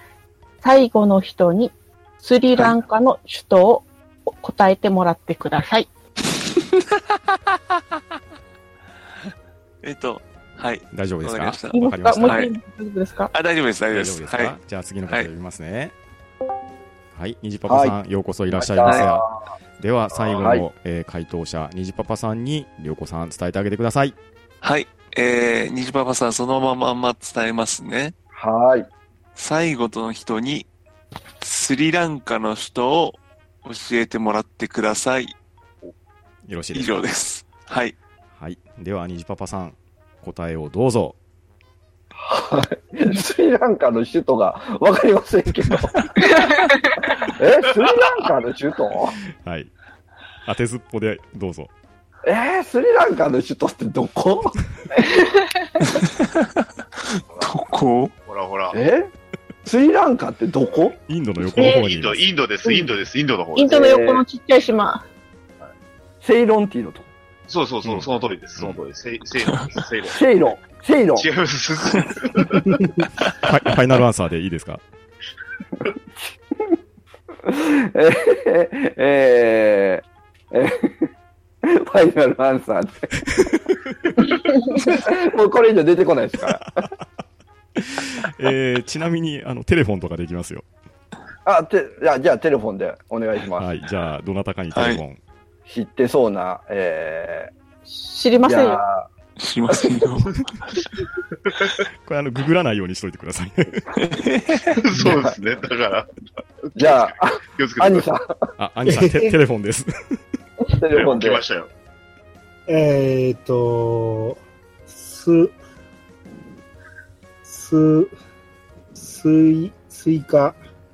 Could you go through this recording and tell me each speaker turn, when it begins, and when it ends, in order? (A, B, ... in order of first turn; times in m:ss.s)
0:00.6-0:05.9 A
0:09.8-0:12.5 B
0:10.9-0:12.4 C
0:11.7-0:13.3 A
0:13.3-0:14.6 B
0:13.9-0:15.9 C
0:17.1-0:19.2 C
0:17.7-0:18.0 D
0:18.5-0:19.4 D
0:19.8-0:24.2 C
0:20.2-0:20.4 E
0:20.4-0:20.6 D
0:24.6-0:28.1 B
0:28.3-0:28.9 D
0:29.3-0:30.7 B
0:31.4-0:35.3 B
0:36.5-0:36.9 C
0:36.7-0:38.0 B
0:38.3-0:41.2 C
0:42.2-0:45.9 D
0:46.4-0:46.8 A
0:47.3-0:49.2 D
0:49.4-0:49.7 C
0:50.4-0:51.7 C
0:52.2-0:54.6 D
0:55.0-0:55.8 A
0:56.0-0:56.5 B
0:57.1-0:58.1 B
0:58.2-0:58.8 E
0:58.7-0:59.1 D
0:59.6-1:01.0 D
1:01.1-1:02.2 C
1:01.6-1:01.8 A
1:01.6-1:03.7 E
1:02.6-1:02.9 A
1:03.6-1:05.0 A
1:03.6-1:04.2 D
1:06.2-1:07.1 D
1:07.5-1:10.2 E
1:07.8-1:08.8 C
1:10.0-1:11.3 D
1:11.2-1:12.7 E
1:13.4-1:14.8 C
1:17.4-1:21.1 D
1:21.6-1:23.4 D
1:24.3-1:26.7 D
1:27.8-1:30.6 C
1:31.4-1:33.7 D
1:33.6-1:35.2 C
1:34.7-1:35.0 B
1:35.7-1:37.5 D
1:37.9-1:38.8 A
1:38.4-1:39.1 D
1:39.4-1:40.8 B
1:42.0-1:43.8 C
1:44.0-1:44.8 B
1:44.7-1:46.1 E
1:46.6-1:48.1 E
1:46.8-1:48.4 D
1:48.6-1:50.2 C
1:48.8-1:49.3 F
1:50.8-1:51.4 D
1:50.9-1:51.7 E
1:52.7-1:55.6 F
1:57.4-1:58.1 F
1:58.9-2:00.6 F